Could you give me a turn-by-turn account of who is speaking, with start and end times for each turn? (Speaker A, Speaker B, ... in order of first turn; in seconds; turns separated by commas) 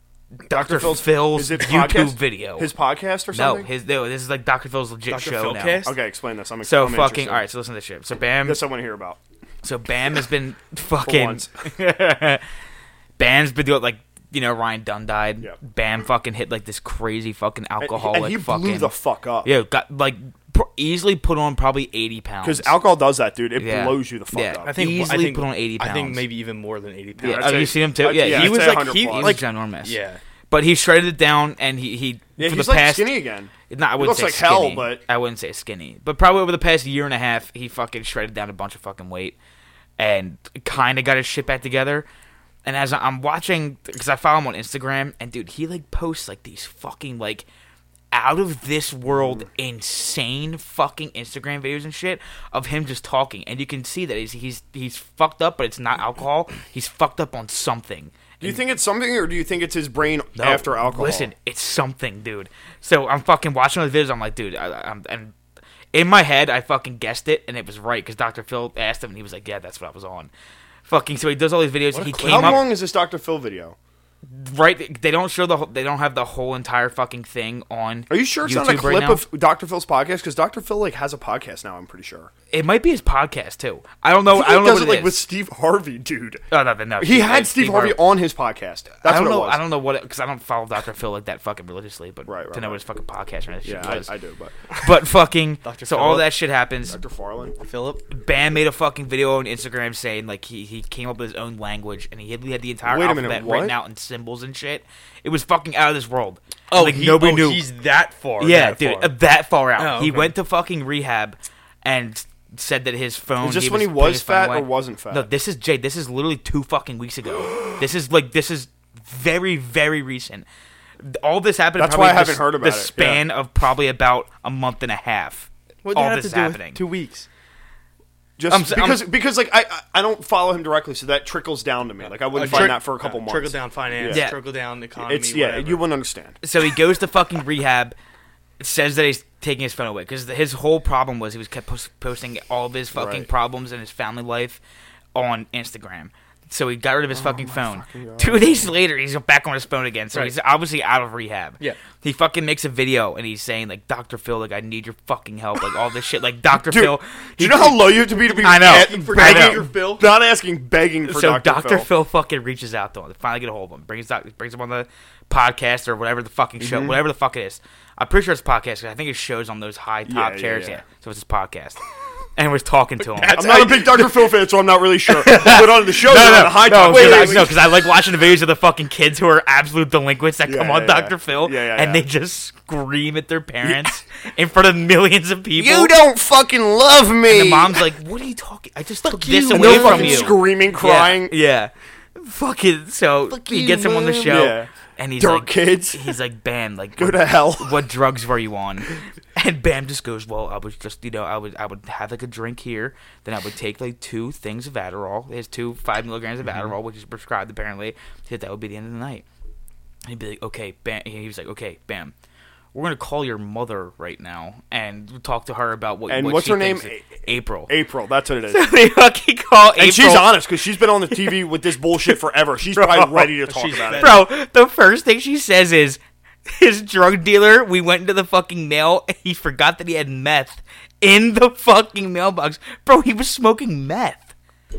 Speaker A: 0.4-2.7, Speaker B: 0.5-3.7, Speaker A: 3.3-5.9, Speaker C: 5.1-6.0, Speaker B: 5.8-7.5, Speaker A: 6.6-8.6, Speaker B: 8.4-9.2, Speaker A: 9.6-12.5, Speaker B: 11.0-11.5, Speaker A: 13.2-18.9, Speaker B: 17.8-19.5, Speaker A: 19.4-22.8, Speaker B: 22.4-24.7, Speaker A: 23.6-26.2, Speaker C: 24.6-30.2, Speaker B: 27.2-29.4, Speaker A: 27.2-30.0, Speaker A: 30.5-33.1, Speaker B: 32.4-35.0, Speaker A: 33.7-39.4, Speaker A: 40.0-42.1, Speaker A: 42.6-47.5, Speaker A: 48.1-58.6, Speaker B: 58.4-61.3, Speaker A: 60.4-65.3, Speaker A: 65.9-70.3, Speaker A: 70.9-72.7, Speaker C: 71.9-72.7, Speaker B: 72.2-73.8, Speaker A: 74.3-79.2, Speaker B: 78.1-82.3, Speaker A: 82.5-85.2, Speaker B: 84.3-86.4, Speaker A: 86.5-88.0, Speaker B: 87.0-89.6, Speaker A: 89.0-94.1, Speaker B: 92.3-92.8, Speaker B: 93.6-94.6, Speaker A: 94.8-97.0, Speaker C: 95.6-96.3, Speaker B: 96.9-97.5, Speaker C: 97.6-98.0, Speaker A: 98.1-107.7, Speaker B: 102.9-103.8, Speaker C: 106.7-109.1, Speaker A: 108.4-120.5, Speaker C: 109.8-110.3, Speaker B: 113.4-115.3, Speaker A: 121.0-126.8, Speaker B: 121.8-123.2, Speaker C: 125.8-127.3, Speaker B: 128.4-134.3, Speaker A: 128.5-129.1, Speaker C: 132.2-135.8, Speaker A: 132.4-132.7, Speaker A: 134.1-134.4, Speaker B: 135.0-136.4, Speaker A: 136.4-137.9, Speaker A: 138.6-144.6, Speaker B: 142.9-143.3, Speaker A: 145.2-159.7, Speaker B: 147.1-148.7, Speaker B: 156.6-161.9, Speaker C: 158.3-160.1, Speaker A: 161.1-171.8, Speaker B: 166.6-167.0, Speaker B: 170.1-170.8, Speaker A: 172.4-173.5, Speaker C: 173.0-174.2, Speaker B: 173.3-177.6, Speaker A: 175.1-186.0, Speaker C: 176.6-177.6, Speaker B: 180.4-182.1, Speaker B: 183.6-183.9, Speaker B: 185.6-187.8, Speaker A: 187.3-209.2, Speaker C: 189.1-190.4, Speaker B: 189.5-191.3, Speaker B: 193.3-196.2, Speaker B: 197.0-197.8, Speaker A: 210.1-212.1, Speaker A: 212.7-217.7, Speaker B: 216.1-218.7, Speaker A: 218.5-220.4, Speaker B: 219.8-224.2, Speaker A: 222.7-223.2, Speaker C: 223.4-224.2, Speaker A: 223.9-234.3